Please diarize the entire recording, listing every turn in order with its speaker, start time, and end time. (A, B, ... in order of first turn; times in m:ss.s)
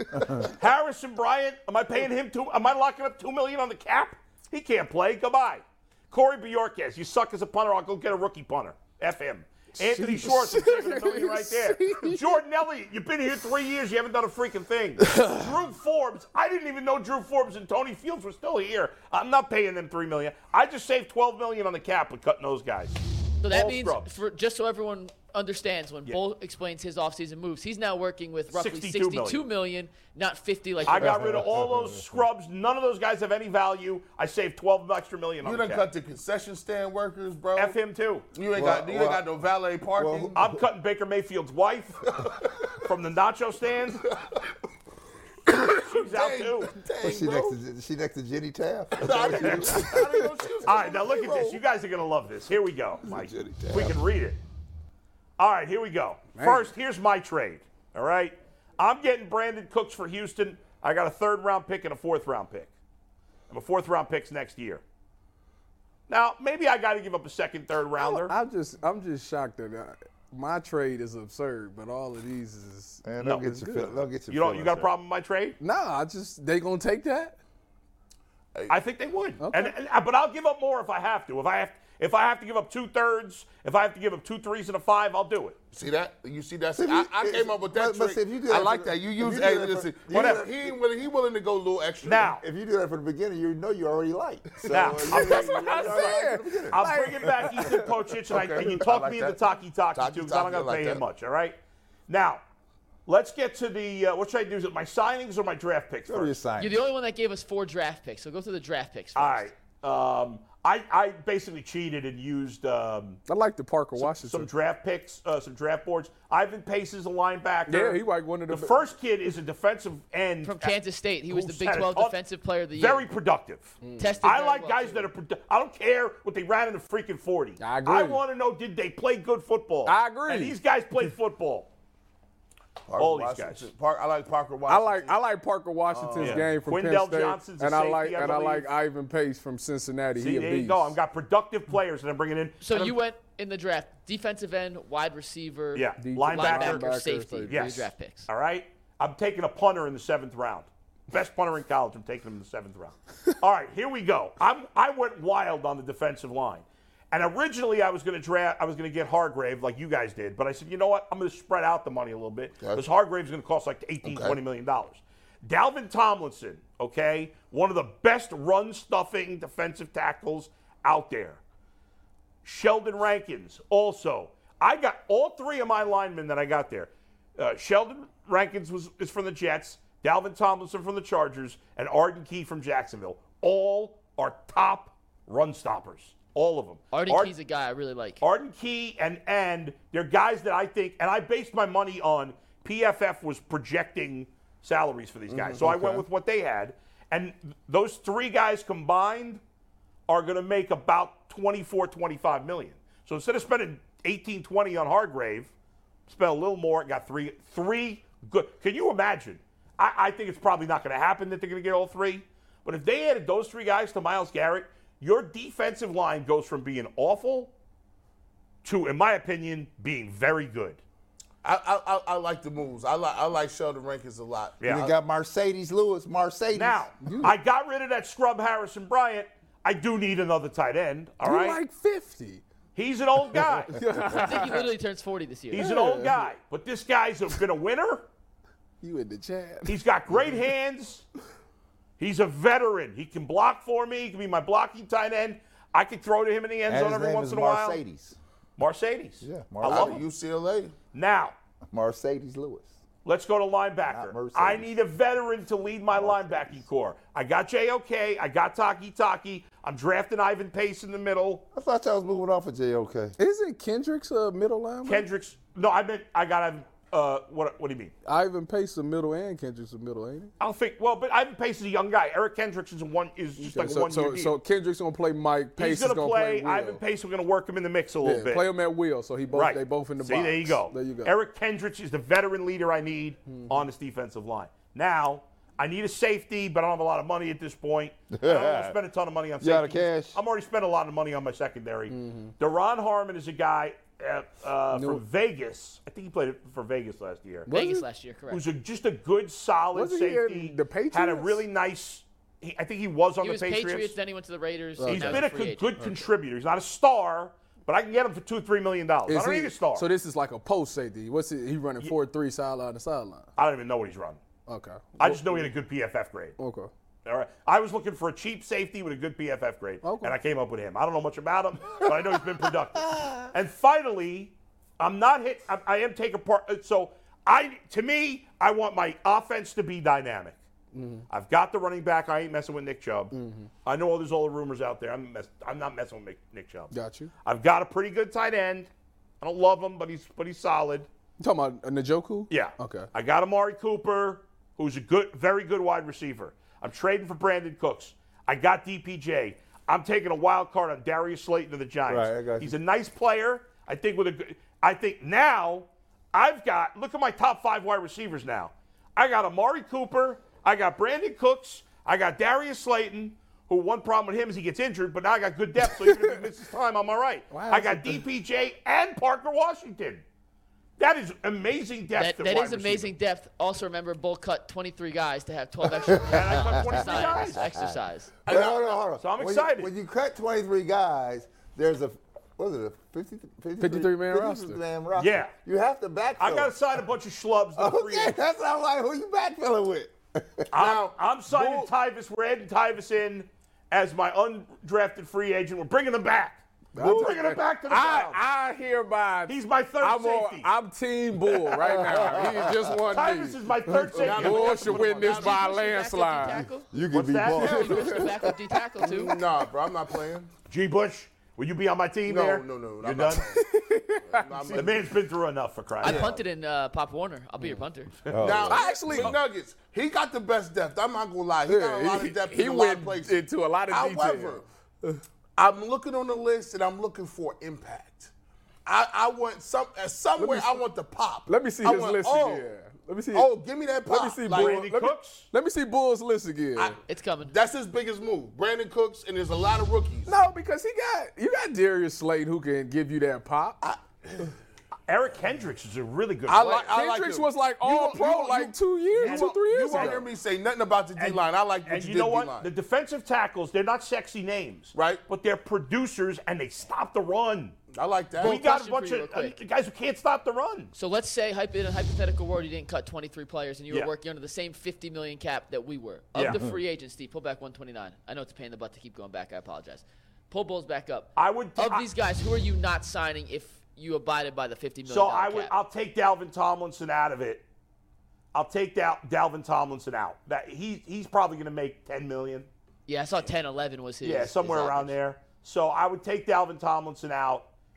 0:00.3-0:24.1 A
0:09.8-0:12.3 B
0:15.0-0:15.4 B
0:23.4-0:31.4 C
0:28.5-0:29.5 A
0:30.8-0:35.9 A
0:31.0-0:32.0 D
0:35.4-0:37.8 E
0:37.6-0:38.3 A
0:38.3-0:40.4 E
0:38.5-0:39.3 D
0:40.0-0:40.6 D
0:40.4-0:42.0 A
0:42.8-0:44.0 A
0:45.5-0:47.6 E
0:45.8-0:46.8 A
0:47.0-0:50.3 D
0:49.0-0:51.6 E
0:49.4-0:49.8 A
0:50.6-0:54.4 A
0:53.0-0:54.0 D
0:55.4-1:02.7 A
0:56.4-0:56.7 B
1:03.5-1:04.8 A
1:06.1-1:08.3 A
1:08.0-1:14.0 B
1:13.0-1:14.9 D
1:14.3-1:15.6 A
1:15.6-1:17.4 B
1:18.7-1:25.6 A
1:19.4-1:19.8 B
1:25.7-1:32.4 E
1:26.8-1:30.8 D
1:30.1-1:30.4 A
1:32.0-1:32.4 A
1:32.2-1:37.3 D
1:34.6-1:36.1 E
1:34.7-1:41.6 A
1:35.2-1:37.9 B
1:38.3-1:39.4 E
1:38.6-1:39.2 D
1:40.0-1:41.0 E
1:42.1-1:42.4 A
1:43.1-1:46.4 A
1:46.1-1:46.9 D
1:46.6-1:49.5 C
1:49.2-1:53.2 A
1:53.3-1:54.5 B
1:54.0-2:00.8 A
1:57.7-1:58.8 B
2:00.4-2:03.1 C
2:01.3-2:02.2 A
2:02.8-2:11.7 A
2:03.8-2:04.2 B
2:04.0-2:05.1 C
2:07.6-2:08.2 B
2:09.9-2:10.6 B
2:12.9-2:15.2 E
2:13.0-2:13.7 A
2:14.7-2:21.0 B
2:15.9-2:16.5 E
2:16.2-2:18.7 A
2:20.2-2:23.0 A
2:22.6-2:28.3 C
2:25.8-2:26.8 A
2:26.0-2:27.6 B
2:27.5-2:51.4 A
2:44.0-2:44.4 E
2:52.4-3:07.3 A
3:06.9-3:08.2 C
3:08.2-3:19.4 A
3:15.3-3:15.9 E
3:20.1-3:25.5 A
3:26.1-3:37.5 A
3:38.6-3:40.8 A
3:41.4-3:44.6 E
3:44.6-3:44.9 A
3:44.6-3:46.9 D
3:46.5-3:51.6 A
3:47.0-3:47.3 B
3:51.2-3:52.4 B
3:52.8-3:53.8 A
3:53.7-3:54.7 B
3:54.1-3:55.7 C
3:55.5-3:58.1 A
3:55.5-3:56.3 B
3:58.8-3:59.8 B
3:59.7-4:01.0 A
4:02.0-4:07.8 A
4:06.7-4:08.2 D
4:08.6-4:10.0 A
4:09.2-4:10.0 D
4:09.6-4:10.7 E
4:10.9-4:11.4 A
4:11.7-4:12.7 D
4:13.0-4:21.4 A
4:13.9-4:14.7 D
4:15.9-4:16.6 D
4:21.5-4:23.2 D
4:23.2-4:25.1 B
4:24.8-4:27.9 A
4:28.1-4:30.3 B
4:30.4-4:34.4 A
4:33.4-4:36.8 B
4:35.6-4:38.5 A
4:38.0-4:41.1 B
4:39.3-4:57.5 A
4:43.3-4:43.6 B
4:48.1-4:48.8 D
4:49.4-4:50.2 D
4:51.9-4:52.3 B
4:54.7-4:55.0 B
4:57.5-4:57.9 B
4:57.5-4:58.4 C
4:58.3-5:04.0 A
4:59.7-5:01.4 B
5:03.2-5:05.8 C
5:04.8-5:05.3 B
5:04.9-5:09.9 A
5:09.1-5:13.3 B
5:13.4-5:14.2 A
5:14.5-5:15.5 B
5:15.0-5:16.4 A
5:16.4-5:16.7 B
5:17.0-5:30.4 A
5:19.8-5:20.2 B
5:30.7-5:31.1 B
5:31.1-5:33.1 A
5:33.1-5:33.5 B
5:33.6-5:36.7 A
5:36.7-5:37.1 B
5:37.2-5:38.7 A
5:39.2-5:40.9 A
5:41.2-5:42.9 B
5:42.3-6:10.0 A
5:51.9-5:52.5 D
6:05.7-6:06.1 B
6:07.3-6:08.0 B
6:10.8-6:12.9 A
6:12.0-6:18.1 C
6:16.0-6:17.4 A
6:16.1-6:16.6 D
6:17.4-6:17.8 D
6:18.3-6:26.6 D
6:18.3-6:18.5 E
6:19.0-6:19.7 A
6:23.6-6:24.6 B
6:25.0-6:25.3 A
6:26.2-6:28.2 A
6:27.6-6:30.5 D
6:30.5-6:38.2 A
6:30.5-6:31.6 E
6:36.7-6:46.5 B
6:36.8-6:37.2 E
6:39.3-6:40.5 A
6:41.7-6:42.2 A
6:41.8-6:42.7 D
6:42.9-6:44.9 A
6:43.9-6:45.5 E
6:44.9-6:46.7 C
6:46.7-6:48.1 D
6:46.9-6:47.8 A
6:47.3-6:49.2 C
6:47.8-6:48.1 B
6:48.9-6:50.3 E
6:50.5-6:53.3 A
6:52.1-6:53.4 E
6:53.4-6:54.6 B
6:54.0-6:54.9 E
6:54.5-6:56.1 A
6:55.8-6:57.9 C
6:55.8-6:56.2 E
6:58.1-6:59.1 D
6:58.2-7:04.5 E
6:58.5-6:59.2 B
7:01.5-7:05.0 B
7:05.4-7:08.1 E
7:08.7-7:12.5 E
7:10.2-7:10.6 B
7:11.3-7:13.3 B
7:13.1-7:14.6 E
7:13.9-7:16.8 B
7:14.3-7:15.3 A
7:16.9-7:17.4 C
7:17.3-7:20.2 E
7:20.1-7:23.6 B
7:23.6-7:24.2 E
7:24.9-7:26.7 A
7:26.3-7:32.5 E
7:26.4-7:30.1 B
7:29.0-7:30.1 A
7:31.0-7:37.6 A
7:34.8-7:35.0 E
7:37.7-7:38.4 E
7:38.2-7:40.7 A
7:38.2-7:39.4 C
7:40.8-7:55.5 C
7:46.2-7:46.4 A
7:46.2-7:46.6 D
7:51.2-7:51.9 A
7:54.9-7:57.4 A
7:58.3-8:02.5 A
8:02.9-8:04.9 C
8:04.0-8:07.5 A